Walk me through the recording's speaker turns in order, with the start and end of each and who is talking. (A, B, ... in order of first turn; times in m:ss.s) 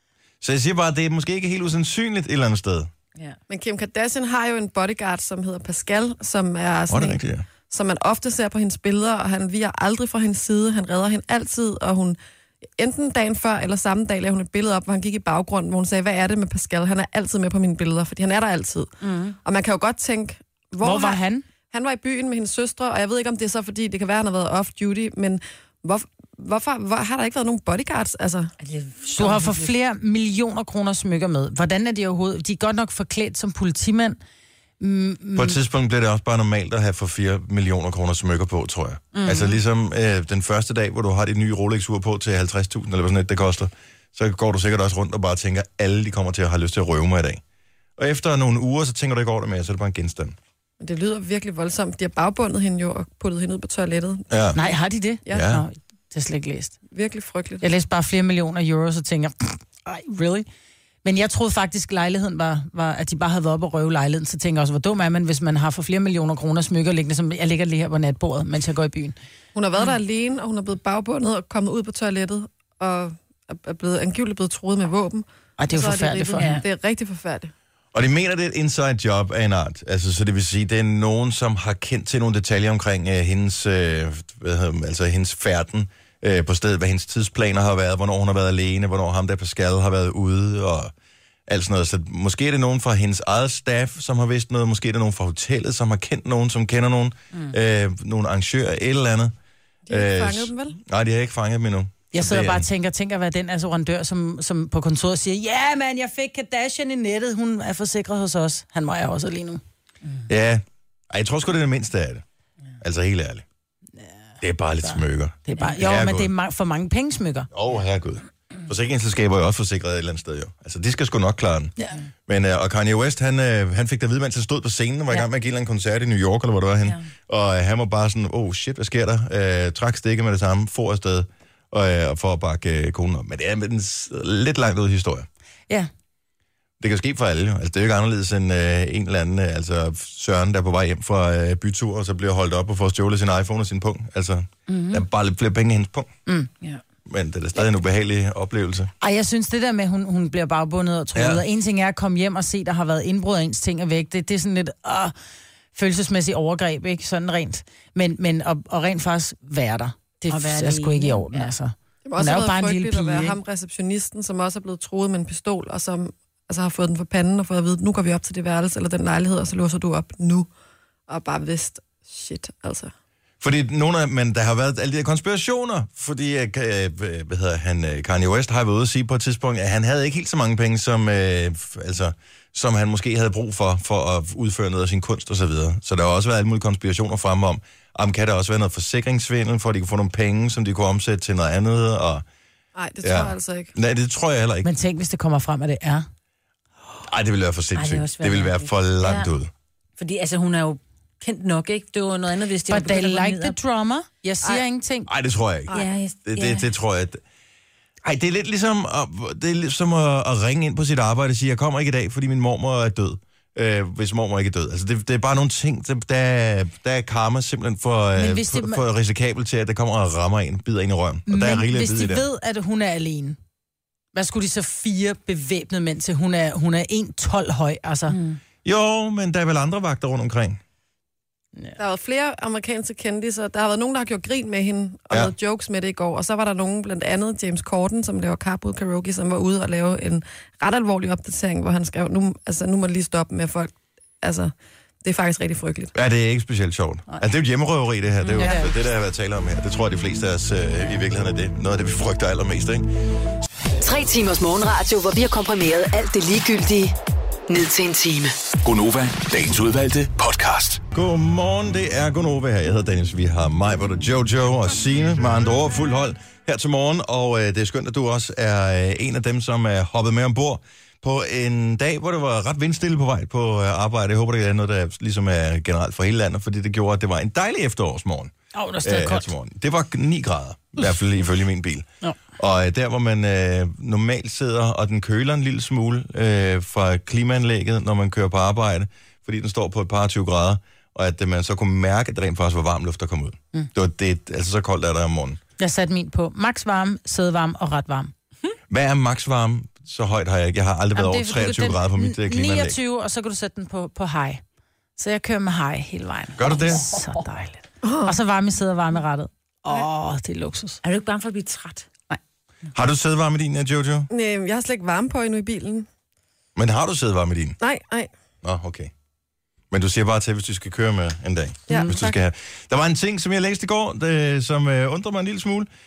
0:00.4-0:02.9 A
0:03.5-0:12.2 B
0:06.9-0:07.4 A
0:12.8-0:18.9 B
0:19.0-0:19.4 C
0:19.4-0:28.5 B
0:20.8-0:21.4 D
0:28.6-0:29.7 C
0:29.1-0:34.2 D
0:34.8-0:35.6 D
0:35.4-0:47.4 A
0:39.1-0:39.6 C
0:48.0-0:50.4 A
0:50.8-0:54.2 B
0:54.3-0:54.6 A
0:54.5-0:56.8 D
0:55.3-0:55.6 A
0:56.9-0:57.6 B
0:57.6-1:00.5 D
1:01.0-1:09.2 D
1:09.5-1:17.5 B
1:15.6-1:16.6 D
1:16.4-1:16.6 C
1:17.9-1:30.9 A
1:31.5-1:39.3 A
1:39.9-1:40.8 B
1:39.9-1:42.6 A
1:42.1-1:49.6 D
1:50.3-1:52.2 A
1:52.8-1:53.4 A
1:54.4-1:56.3 A
1:54.8-1:57.5 D
1:57.5-2:01.7 A
2:02.3-2:15.3 A
2:16.8-2:26.1 A
2:24.7-2:25.0 C
2:27.1-2:28.9 A
2:29.0-2:35.1 D
2:31.1-2:31.4 A
2:35.8-2:43.4 D
2:40.3-2:41.5 C
2:42.0-2:50.5 B
2:51.1-2:52.9 B
2:53.4-3:12.2 A
3:12.8-3:13.7 B
3:13.0-3:14.7 A
3:14.6-3:16.1 D
3:17.0-3:19.5 A
3:17.8-3:19.3 C
3:20.0-3:23.6 C
3:22.7-3:25.1 D
3:25.1-3:27.2 A
3:25.7-3:26.7 C
3:28.0-3:42.3 A
3:38.2-3:38.8 D
3:41.3-3:43.4 D
3:44.1-3:48.2 D
3:48.1-3:48.4 C
3:48.6-3:50.6 A
3:51.8-4:04.5 B
4:05.0-4:05.9 B
4:05.9-4:12.9 A
4:08.2-4:08.6 C
4:08.4-4:08.7 D
4:13.8-4:16.9 E
4:17.5-4:18.3 E
4:18.6-4:20.8 F
4:20.9-4:55.4 A
4:38.5-4:39.3 D
4:55.6-4:58.1 D
4:58.7-5:02.8 A
5:00.9-5:04.4 D
5:05.0-5:10.8 D
5:06.4-5:06.9 A
5:07.8-5:08.2 B
5:10.8-5:11.9 C
5:12.7-5:14.1 A
5:14.1-5:15.9 B
5:16.6-5:17.6 A
5:17.6-5:18.1 B
5:18.4-5:18.9 A
5:19.7-5:25.7 A
5:21.7-5:22.1 B
5:21.7-5:22.0 D